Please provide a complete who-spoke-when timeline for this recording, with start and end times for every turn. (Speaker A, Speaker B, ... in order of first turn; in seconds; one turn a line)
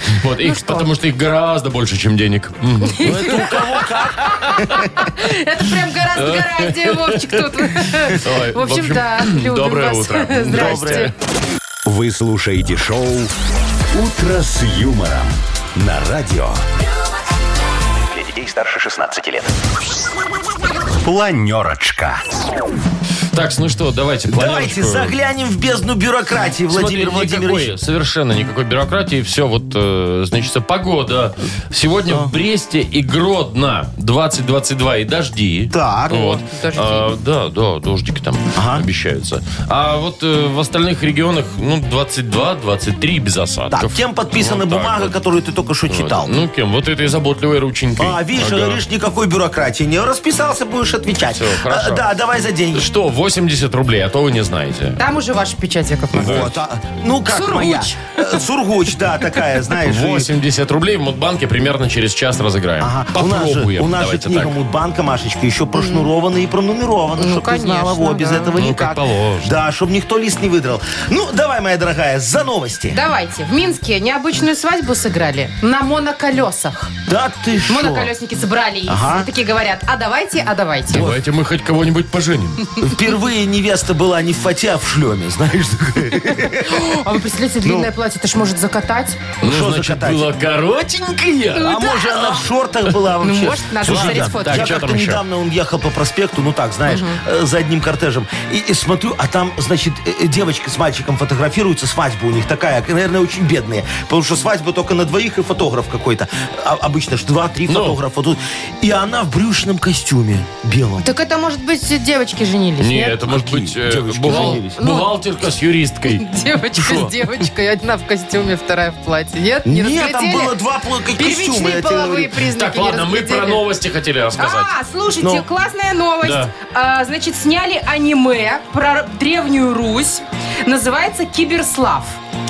Speaker A: 0.2-4.6
Speaker B: 0.4-0.9
Speaker B: 2.9-3.5
Speaker C: 3.0-4.9
Speaker B: 4.2-11.1
Speaker A: 6.2-11.1
Speaker C: 10.5-11.1
Speaker D: 11.8-13.3
Speaker D: 13.9-16.6
Speaker D: 18.2-19.5
Speaker D: 21.0-22.2
Speaker A: 23.3-25.1
Speaker C: 24.3-27.7
Speaker A: 26.7-45.1
Speaker C: 35.7-36.3
Speaker B: 36.1-37.1
Speaker C: 38.5-38.8
Speaker C: 43.7-46.3
Speaker A: 45.9-48.8
Speaker C: 48.0-52.9
Speaker A: 51.3-52.0
Speaker A: 52.7-55.0
Speaker B: 55.0-56.5
Speaker C: 56.1-60.3
Speaker A: 56.1-56.5
Speaker B: 57.3-58.2
Speaker A: 59.8-64.5
Speaker C: 62.8-73.0
Speaker B: 65.7-66.1
Speaker B: 67.2-68.5
Speaker A: 68.6-69.5
Speaker B: 72.9-76.9
Speaker C: 77.1-78.1
Speaker B: 77.7-81.0
Speaker C: 78.9-79.3
Speaker A: 80.9-82.6
Speaker C: 80.9-81.2
Speaker C: 82.8-87.0
Speaker B: 86.2-89.2
Speaker C: 87.6-87.9
Speaker A: 89.4-91.7
Speaker C: 89.4-90.2
Speaker B: 91.5-92.5
Speaker C: 91.6-111.0
Speaker B: 93.2-94.7
Speaker A: 93.8-95.2
Speaker B: 96.9-97.2
Speaker A: 107.7-108.0
Speaker B: 111.0-113.2
Speaker A: 112.8-117.1
Speaker C: 113.2-114.8
Speaker B: 114.3-115.1
Speaker B: 116.1-120.6
Speaker C: 119.7-122.3
Speaker B: 121.1-123.6
Speaker A: 122.5-124.7
Speaker B: 124.4-132.2
Speaker A: 126.2-126.5